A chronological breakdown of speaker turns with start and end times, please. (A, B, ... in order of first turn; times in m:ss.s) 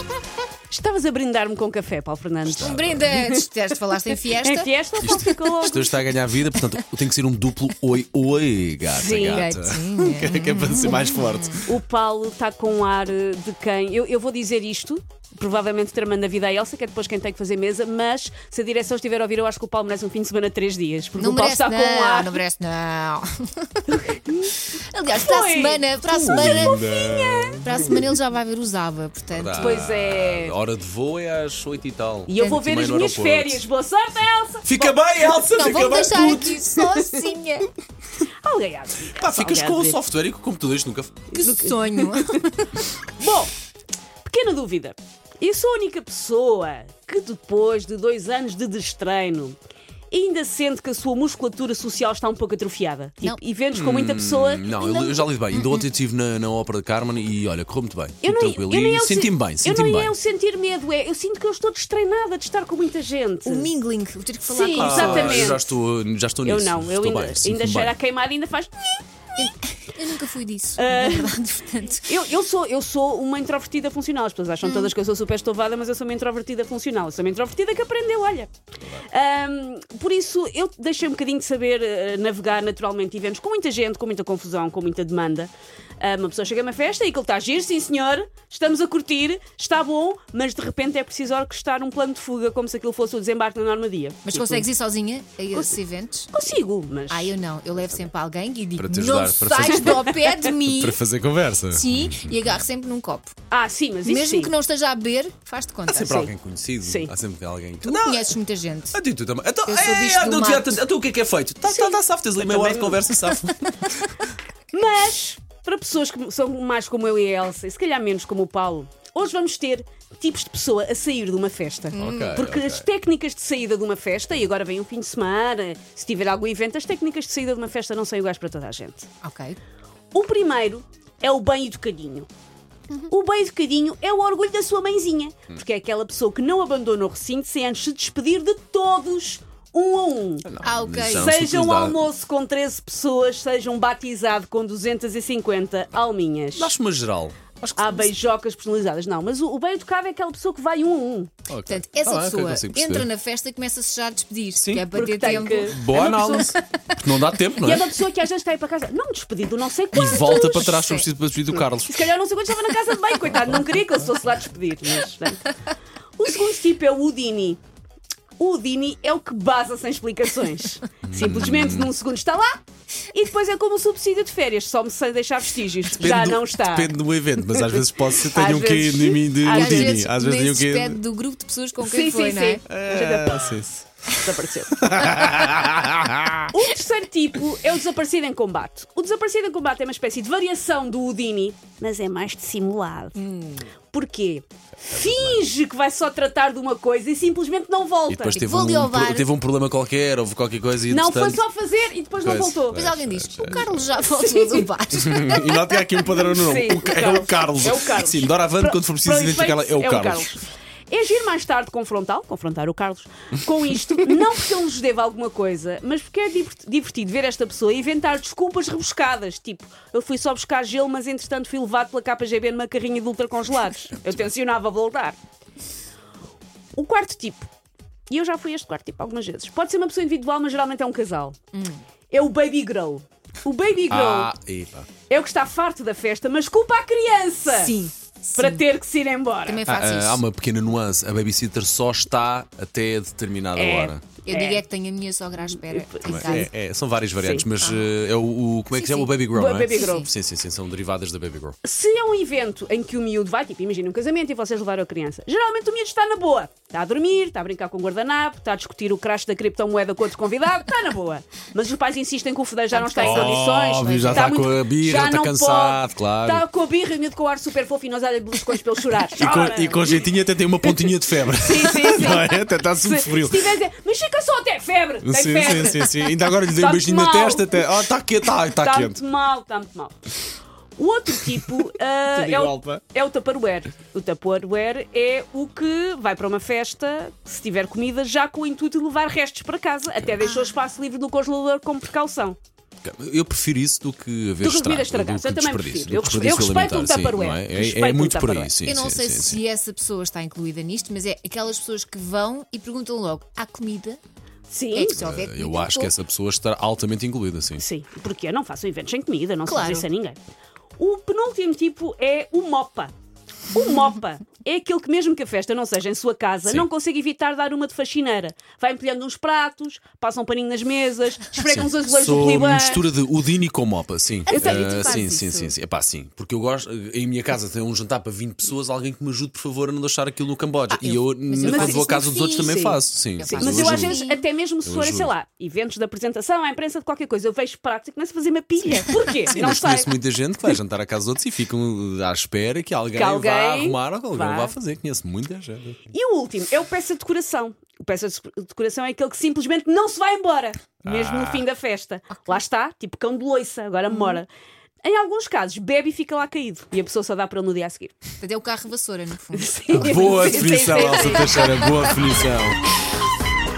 0:00.7-0:03.4 A
0:02.5-0:03.1 B
0:02.6-0:05.3 C
0:04.4-0:05.9 A
0:05.0-0:11.7 B
0:08.9-0:09.5 A
0:09.2-0:11.6 C
0:11.6-0:22.4 A
0:21.2-0:24.0 C
0:23.9-0:24.6 A
0:24.7-0:26.8 C
0:25.1-0:28.0 A
0:26.0-0:28.1 B
0:27.6-0:29.8 C
0:29.3-0:33.7 B
0:29.6-0:30.5 A
0:32.3-0:35.0 A
0:32.4-0:32.6 C
0:34.6-0:36.7 B
0:35.4-0:37.7 C
0:36.9-0:37.3 A
0:38.4-0:40.0 A
0:39.2-0:41.3 B
0:41.3-0:42.4 A
0:41.3-0:42.9 C
0:43.2-0:43.5 A
0:44.2-0:49.6 A
0:50.1-0:55.0 A
0:53.7-1:00.2 B
0:54.8-0:55.9 C
0:58.2-1:03.7 A
1:03.4-1:05.6 C
1:04.5-1:05.7 A
1:04.8-1:08.0 B
1:06.4-1:09.0 A
1:09.4-1:12.2 C
1:10.8-1:11.3 A
1:12.0-1:18.5 A
1:14.6-1:14.9 C
1:19.0-1:34.7 A
1:34.2-1:36.3 C
1:35.5-1:35.8 A
1:36.3-1:37.3 A
1:37.1-1:41.0 C
1:38.8-1:42.6 B
1:41.7-1:43.3 C
1:43.5-1:44.5 A
1:44.0-1:46.3 C
1:45.9-1:48.3 B
1:46.8-1:47.1 A
1:47.8-1:49.0 C
1:48.9-1:53.8 B
1:49.7-1:50.8 C
1:51.6-1:53.1 A
1:54.7-2:09.1 A
2:01.9-2:02.4 C
2:02.0-2:02.9 B
2:09.2-2:09.6 C
2:10.1-2:12.3 A
2:13.1-2:20.5 A
2:20.4-2:22.1 B
2:20.6-2:21.3 C
2:21.1-2:26.7 A
2:26.6-2:28.1 B
2:27.8-2:31.3 A
2:31.5-2:33.1 B
2:31.7-2:37.2 C
2:34.6-2:37.9 B
2:34.9-2:36.4 A
2:37.6-2:40.7 A
2:39.9-2:42.1 B
2:40.0-2:41.1 C
2:41.8-2:45.5 A
2:46.2-2:47.6 A
2:48.4-2:57.0 A
2:51.0-2:51.9 B
2:56.0-3:01.0 B
2:57.5-3:00.0 A
2:59.4-3:02.6 C
3:01.8-3:03.6 A
3:02.7-3:03.8 B
3:04.2-3:04.9 A
3:04.8-3:06.5 B
3:06.5-3:13.2 A
3:13.2-3:13.7 C
3:13.9-3:18.4 A
3:14.8-3:15.4 B
3:18.1-3:21.4 B
3:18.4-3:19.3 C
3:20.9-3:22.9 A
3:22.2-3:23.8 B
3:22.7-3:25.6 C
3:24.1-3:24.7 A
3:24.9-3:30.4 B
3:26.0-3:45.2 A
3:46.8-3:47.5 A
3:48.1-3:51.4 A
3:51.5-3:51.8 C
3:52.1-3:54.3 A
3:53.9-3:54.9 B
3:55.1-3:59.6 A
3:57.5-3:58.6 C
3:59.4-4:00.2 C
3:59.7-4:04.0 B
4:03.6-4:04.6 A
4:04.2-4:06.5 C
4:05.5-4:06.5 A
4:06.0-4:11.6 B
4:07.2-4:07.4 A
4:07.6-4:07.9 C
4:08.7-4:09.1 C
4:09.3-4:10.1 A
4:09.7-4:10.0 C
4:11.6-4:30.0 A
4:22.7-4:24.4 C
4:23.0-4:26.4 B
4:29.1-4:33.6 B
4:30.6-4:35.9 A
4:35.0-4:39.0 B
4:36.5-4:37.6 A
4:38.6-4:40.0 A
4:40.8-4:52.4 A
4:42.1-4:42.8 B
4:50.2-4:50.5 C
4:52.8-4:59.4 B
4:54.4-4:58.5 A
4:58.6-5:04.0 C
5:04.5-5:05.0 A
5:04.7-5:05.9 C
5:05.0-5:07.6 B
5:07.6-5:10.2 A
5:09.4-5:09.9 C
5:10.8-5:12.9 A
5:13.5-5:22.9 A
5:21.3-5:34.0 B
5:24.3-5:25.6 C
5:24.3-5:25.1 A
5:30.7-5:31.9 C
5:31.4-5:39.9 A
5:33.2-5:34.2 C
5:34.6-5:35.1 B
5:39.3-5:45.8 B
5:42.9-5:44.6 A
5:45.9-5:54.3 A
5:50.8-5:51.5 B
5:53.9-5:54.2 C
5:54.8-5:57.9 A
5:58.2-6:01.9 C
5:59.3-6:01.7 A
5:59.7-6:02.6 B